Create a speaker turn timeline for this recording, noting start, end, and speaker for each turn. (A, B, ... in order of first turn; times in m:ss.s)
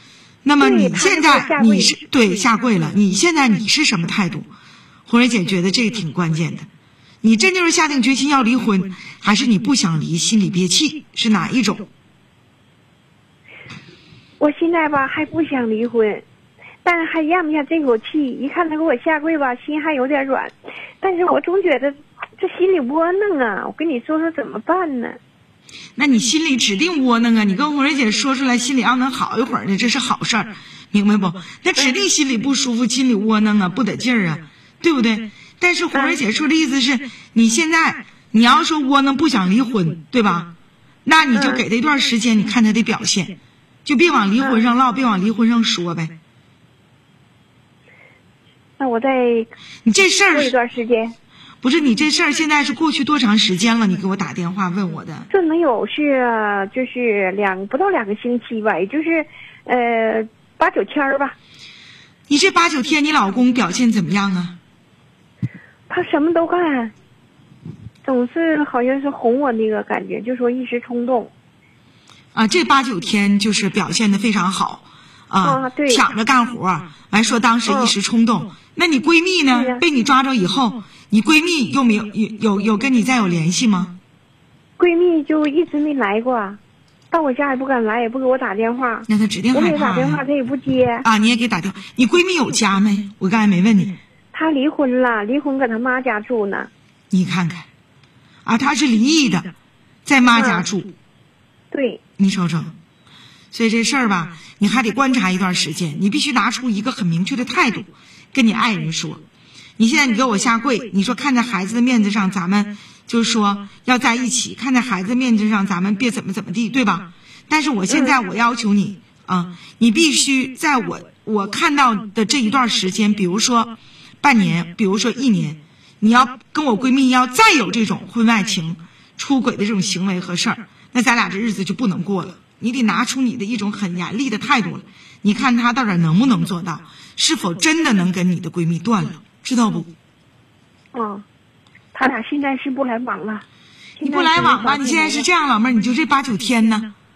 0:00.4-0:04.5 A
0:00.6-0:02.0 B
0:05.1-0:06.7 A
0:07.2-0:11.9 A
0:14.4-0:16.2 B
0:16.8-0:25.2 B
0:26.0-0:40.5 A
0:35.9-0:36.2 B
0:41.0-0:46.2 A
0:41.3-0:41.6 B
0:48.8-0:49.5 B
0:49.8-0:50.6 A
0:50.3-0:51.1 B
0:51.6-0:55.3 A
0:55.3-1:01.4 B
1:02.3-1:04.6 A
1:05.9-1:06.9 B
1:08.0-1:11.3 B
1:12.4-1:24.0 A
1:15.4-1:16.0 B
1:17.7-1:17.9 B
1:19.5-1:19.8 B
1:24.8-1:26.6 B
1:27.1-1:31.0 B
1:29.1-1:30.2 A
1:31.0-1:34.0 A
1:34.3-1:36.7 B
1:37.1-1:37.7 A
1:38.4-1:39.5 A
1:40.1-1:40.9 A
1:40.3-1:40.7 B
1:41.7-1:42.0 B
1:42.2-1:42.7 A
1:43.5-1:49.2 A
1:49.8-2:19.9 A
1:57.9-1:58.2 B
2:20.9-2:21.2 B
2:21.9-2:23.4 B
2:24.0-2:25.3 B
2:24.0-2:26.9 A